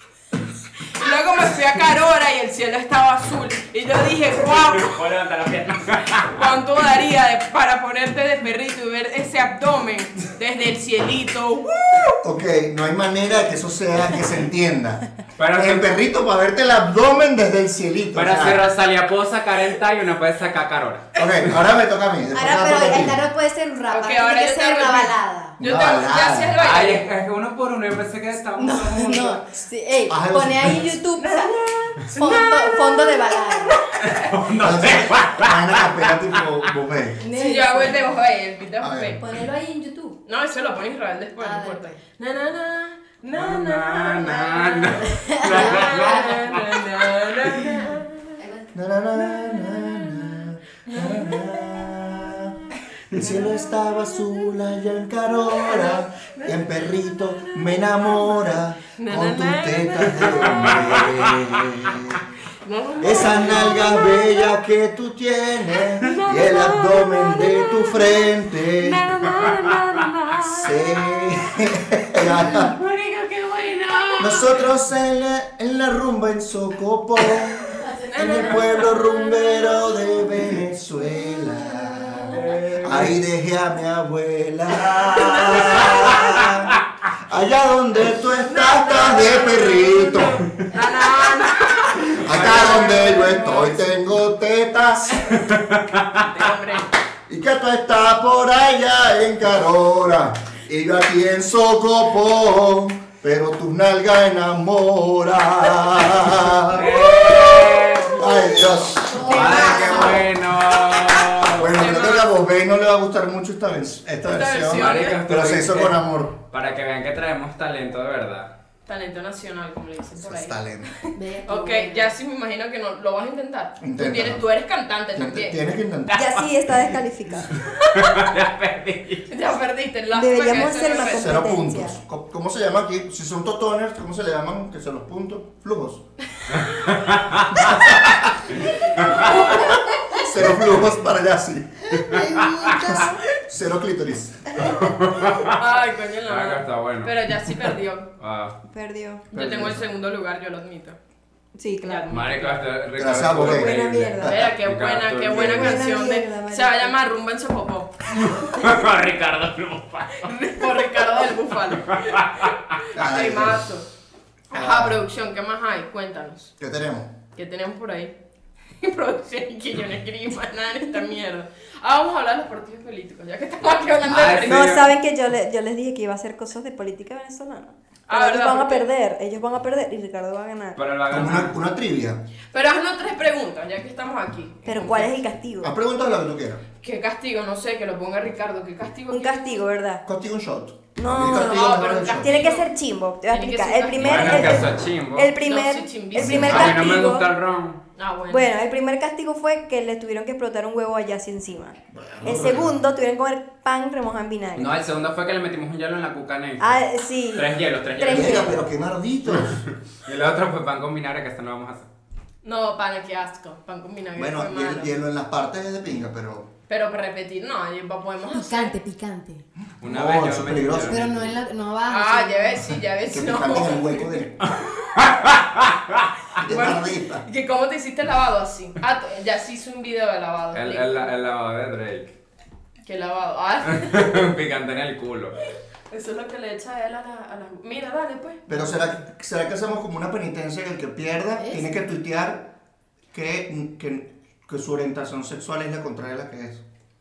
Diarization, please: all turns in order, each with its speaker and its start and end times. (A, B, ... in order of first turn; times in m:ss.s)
0:00.9-0:05.0 A
0:04.4-0:06.4 B
0:06.3-0:12.0 A
0:12.2-0:18.7 C
0:15.4-0:16.0 B
0:18.1-0:21.5 B
0:21.2-0:23.2 C
0:22.3-0:25.6 D
0:23.9-0:27.1 A
0:25.6-0:26.6 C
0:26.6-0:29.4 B
0:28.6-0:33.8 D
0:30.1-0:31.0 C
0:31.2-0:34.3 A
0:34.0-0:36.4 B
0:34.6-0:37.2 C
0:37.2-0:38.0 D
0:37.3-0:39.2 A
0:38.8-0:39.2 C
0:39.2-0:40.2 D
0:40.2-0:48.3 A
0:41.4-0:42.0 D
0:43.3-0:46.4 B
0:45.0-0:46.5 D
0:48.4-0:48.7 D
0:48.7-1:02.2 C
0:50.9-0:51.4 A
0:53.2-0:53.8 A
0:55.4-0:58.4 A
0:58.9-1:01.3 A
1:00.6-1:01.3 B
1:02.6-1:04.5 A
1:03.0-1:09.2 C
1:06.0-1:11.7 A
1:10.4-1:12.8 C
1:12.2-1:14.5 A
1:14.2-1:30.5 C
1:17.9-1:18.4 D
1:17.9-1:20.2 A
1:22.3-1:23.1 B
1:25.4-1:26.5 B
1:28.2-1:34.0 A
1:32.1-1:35.4 C
1:35.3-1:36.2 B
1:36.1-1:36.9 A
1:37.3-1:47.5 C
1:46.7-1:48.5 B
1:48.1-1:50.3 C
1:48.9-1:50.3 D
1:49.2-1:51.7 B
1:51.4-1:56.4 C
1:51.8-1:52.3 A
1:54.3-1:55.2 A
1:54.7-1:58.5 B
1:58.8-2:00.6 A
2:00.2-2:01.0 C
2:01.1-2:02.1 D
2:01.4-2:05.6 A
2:03.8-2:04.5 C
2:05.1-2:06.2 C
2:06.1-2:06.4 B
2:06.1-2:07.6 E
2:07.6-2:08.2 A
2:07.7-2:09.3 B
2:09.3-2:11.5 A
2:10.1-2:12.0 E
2:10.9-2:16.0 C
2:16.5-2:17.9 B
2:17.5-2:18.6 C
2:18.6-2:19.3 B
2:18.9-2:20.1 A
2:19.2-2:24.7 C
2:24.7-2:25.6 B
2:25.2-2:28.1 A
2:26.2-2:27.4 B
2:28.2-2:28.6 B
2:28.7-2:29.3 E
2:29.3-2:29.8 C
2:29.3-2:31.0 A
2:31.5-2:32.2 E
2:31.8-2:32.6 A
2:32.1-2:35.8 B
2:33.0-2:34.5 C
2:33.3-2:34.3 E
2:34.2-2:38.0 A
2:35.3-2:35.7 C
2:35.4-2:36.9 E
2:38.1-2:40.8 B
2:40.2-2:43.9 A
2:41.9-2:42.5 B
2:42.9-2:43.7 C
2:44.5-2:46.5 A
2:44.5-2:45.0 C
2:46.6-2:47.2 C
2:47.3-2:48.1 A
2:48.8-2:54.8 A
2:54.1-2:54.9 B
2:54.4-3:00.8 E
2:58.1-2:58.9 A
3:00.8-3:01.6 B
3:01.1-3:02.2 C
3:02.5-3:05.2 A
3:04.6-3:05.7 E
3:05.6-3:06.6 C
3:06.8-3:09.6 A
3:09.1-3:10.0 E
3:10.0-3:12.3 C
3:10.9-3:17.2 E
3:11.2-3:12.7 A
3:13.3-3:14.7 A
3:14.0-3:15.3 B
3:15.4-3:17.2 A
3:16.2-3:16.8 C
3:16.2-3:17.8 B
3:18.0-3:18.5 A
3:18.3-3:24.7 E
3:21.9-3:22.8 C
3:24.6-3:28.6 B
3:26.6-3:28.6 E
3:28.0-3:29.6 C
3:29.3-3:31.9 B
3:32.4-3:34.9 A
3:34.2-3:36.5 C
3:36.7-3:38.7 A
3:38.3-3:39.4 D
3:39.8-3:41.4 C
3:39.8-3:41.3 B
3:40.8-3:42.8 D
3:41.9-3:44.5 A
3:43.1-3:44.5 C
3:45.0-3:46.1 B
3:46.4-3:47.2 C
3:46.4-3:51.1 A
3:50.5-3:52.1 B
3:52.8-3:54.3 A
3:53.7-3:55.4 B
3:55.9-3:58.4 A
3:58.5-4:02.5 C
4:01.4-4:01.6 D
4:03.1-4:06.6 C